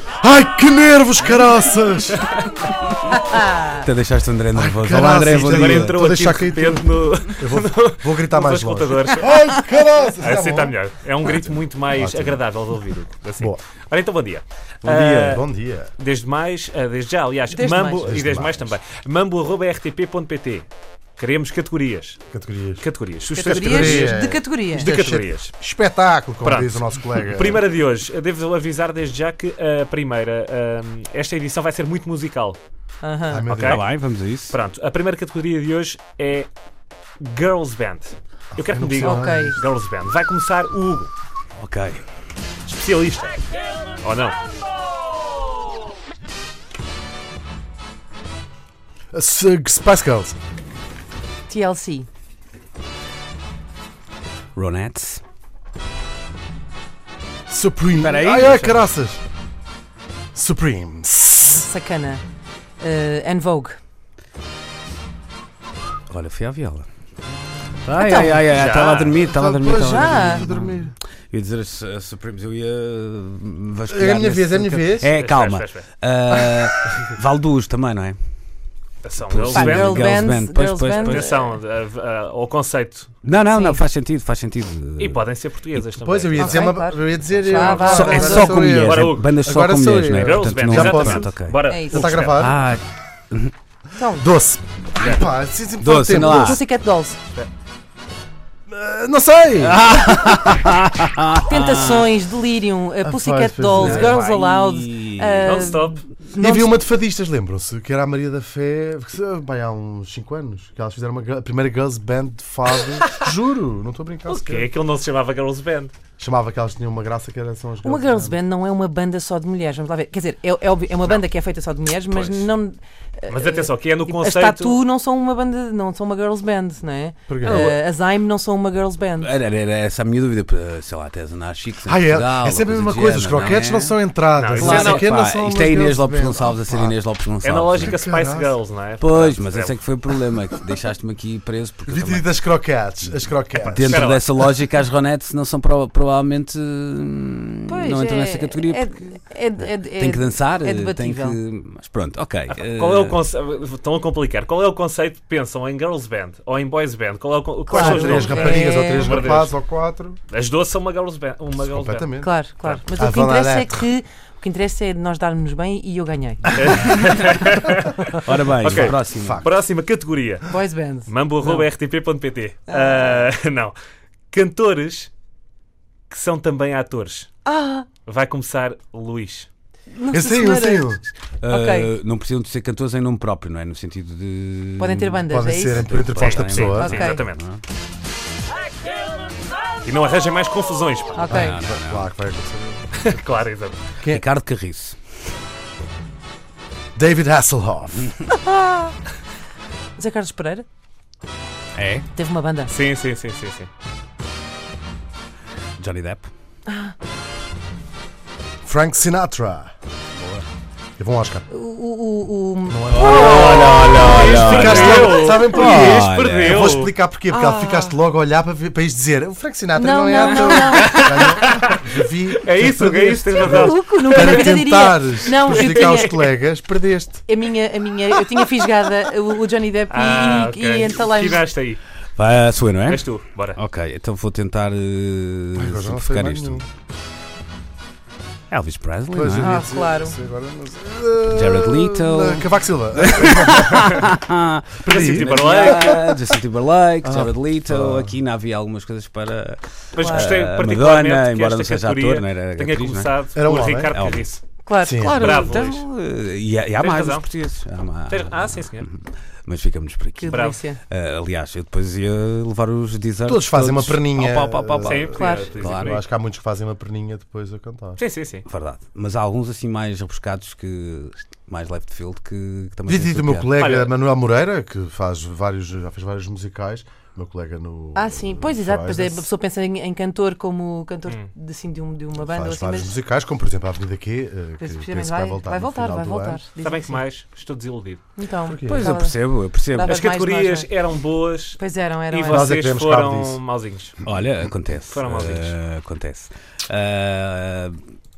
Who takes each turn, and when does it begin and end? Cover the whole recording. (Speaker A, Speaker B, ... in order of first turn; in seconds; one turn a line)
Speaker A: 0.2-2.3
Speaker B: 3.1-3.8
Speaker C: 3.6-6.0
Speaker A: 4.5-10.8
Speaker D: 5.3-9.4
Speaker D: 10.2-15.4
Speaker A: 11.9-12.4
Speaker A: 14.8-15.9
Speaker D: 16.0-22.2
Speaker B: 17.5-18.1
Speaker A: 18.0-18.7
Speaker A: 22.3-22.8
Speaker D: 22.8-24.2
Speaker B: 23.3-24.9
Speaker A: 23.4-27.6
Speaker D: 24.7-25.5
Speaker D: 26.4-32.6
Speaker B: 33.0-33.4
Speaker A: 33.3-33.8
Speaker D: 33.4-33.8
Speaker C: 33.6-34.5
Speaker D: 34.5-36.5
Speaker D: 37.2-41.1
Speaker A: 38.5-39.6
Speaker B: 39.0-39.5
Speaker C: 41.6-42.0
Speaker D: 42.6-43.4
Speaker D: 44.0-44.4
Speaker A: 49.1-50.4
Speaker B: 51.5-52.1
Speaker C: 54.5-55.2
Speaker A: 57.5-59.2
Speaker C: 58.0-58.9
Speaker A: 60.3-61.7
Speaker B: 61.4-62.2
Speaker B: 62.8-63.8
Speaker C: 66.1-66.9
Speaker C: 67.8-78.2
Speaker B: 68.0-68.5
Speaker D: 68.5-69.2
Speaker A: 69.2-70.9
Speaker B: 69.7-70.4
Speaker A: 73.9-75.1
Speaker D: 75.1-75.9
Speaker D: 79.0-80.2
Speaker C: 79.3-81.2
Speaker B: 79.5-81.6
Speaker D: 80.9-83.2
Speaker C: 83.2-85.2
Speaker B: 83.5-83.8
Speaker D: 85.0-86.6
Speaker A: 86.0-92.6
Speaker B: 86.3-88.6
Speaker D: 87.5-89.3
Speaker C: 87.9-91.6
Speaker D: 90.2-92.5
Speaker B: 91.7-92.1
Speaker C: 92.2-93.5
Speaker B: 94.0-94.2
Speaker A: 94.2-96.6
Speaker C: 95.8-96.6
Speaker B: 96.2-97.2
Speaker A: 98.7-99.9
Speaker C: 99.6-102.1
Speaker B: 101.4-106.7
Speaker A: 103.0-104.2
Speaker C: 103.7-105.7
Speaker D: 105.4-106.0
Speaker A: 106.4-114.7
Speaker D: 114.3-115.9
Speaker A: 116.2-118.3
Speaker B: 117.8-129.3
Speaker D: 122.1-122.5
Speaker D: 123.3-124.8
Speaker A: 127.3-127.7
Speaker D: 127.4-127.8
Speaker C: 129.2-133.9
Speaker A: 131.8-137.0
Speaker D: 134.3-135.1
Speaker C: 134.6-138.0
Speaker B: 134.6-135.0
Speaker D: 137.4-139.8
Speaker A: 137.8-138.6
Speaker C: 139.0-142.3
Speaker A: 141.9-144.2
Speaker C: 143.6-148.9
Speaker D: 143.7-144.2
Speaker B: 147.7-151.4
Speaker C: 149.8-153.2
Speaker D: 152.6-159.6
Speaker B: 157.7-159.3
Speaker A: 157.7-160.2
Speaker D: 160.3-162.1
Speaker A: 161.6-162.3
Speaker B: 162.2-166.8
Speaker A: 162.9-163.8
Speaker D: 166.5-170.5
Speaker C: 168.1-169.4
Speaker A: 168.7-169.5
Speaker B: 170.5-171.7
Speaker D: 171.1-173.7
Speaker B: 172.7-173.3
Speaker D: 174.3-175.1
Speaker D: 176.1-177.3
Speaker B: 177.4-177.9
Speaker D: 178.0-179.5
Speaker B: 179.9-181.9
Speaker A: 180.1-181.0
Speaker C: 181.4-187.6
Speaker B: 184.8-185.9
Speaker A: 185.3-187.0
Speaker D: 186.1-187.4
Speaker B: 186.7-187.2
Speaker D: 189.8-191.2
Speaker B: 191.1-191.6
Speaker A: 191.2-193.1
Speaker C: 191.3-192.1
Speaker D: 193.0-193.8
Speaker C: 194.0-195.0
Speaker A: 196.9-198.1
Speaker B: 198.3-198.9
Speaker B: 200.0-200.7
Speaker C: 201.7-202.1
Speaker B: 202.1-202.7
Speaker D: 202.7-203.7
Speaker C: 205.8-206.3
Speaker B: 206.7-206.9
Speaker A: 208.6-209.7
Speaker C: 210.1-210.4
Speaker A: 211.0-211.4
Speaker B: 211.5-214.0
Speaker A: 212.7-227.2
Speaker C: 212.9-216.7
Speaker D: 213.4-216.9
Speaker B: 215.1-215.3
Speaker B: 217.3-217.9
Speaker B: 219.8-221.5
Speaker D: 220.2-221.8
Speaker D: 222.4-224.5
Speaker B: 223.4-226.2
Speaker D: 225.4-226.3
Speaker B: 227.3-231.4
Speaker D: 229.9-231.8
Speaker C: 232.2-236.6
Speaker D: 232.8-233.6
Speaker A: 235.6-236.6
Speaker C: 238.5-239.6
Speaker A: 239.1-244.1
Speaker B: 239.4-240.1
Speaker C: 241.3-253.1
Speaker A: 244.8-245.7
Speaker D: 244.8-246.2
Speaker A: 247.0-248.2
Speaker D: 249.9-254.4
Speaker B: 250.0-250.3
Speaker A: 253.3-253.9
Speaker C: 253.9-254.3
Speaker B: 254.7-255.0
Speaker A: 254.8-255.5
Speaker C: 254.9-266.0
Speaker D: 255.0-255.9
Speaker D: 256.8-257.3
Speaker D: 258.1-258.9
Speaker B: 260.2-260.8
Speaker D: 260.3-260.6
Speaker A: 263.2-268.0
Speaker D: 264.8-266.0
Speaker B: 265.1-265.5
Speaker D: 268.0-268.4
Speaker C: 268.5-273.5
Speaker A: 272.9-279.3
Speaker D: 273.6-273.9
Speaker B: 277.9-282.9
Speaker A: 282.2-286.4
Speaker B: 284.6-287.0
Speaker D: 286.6-288.1
Speaker B: 288.2-290.7
Speaker A: 288.4-289.0
Speaker C: 288.6-290.0
Speaker D: 289.8-291.6
Speaker B: 291.6-292.5
Speaker D: 292.1-294.0
Speaker A: 292.3-293.4
Speaker C: 294.0-297.8
Speaker D: 294.9-295.6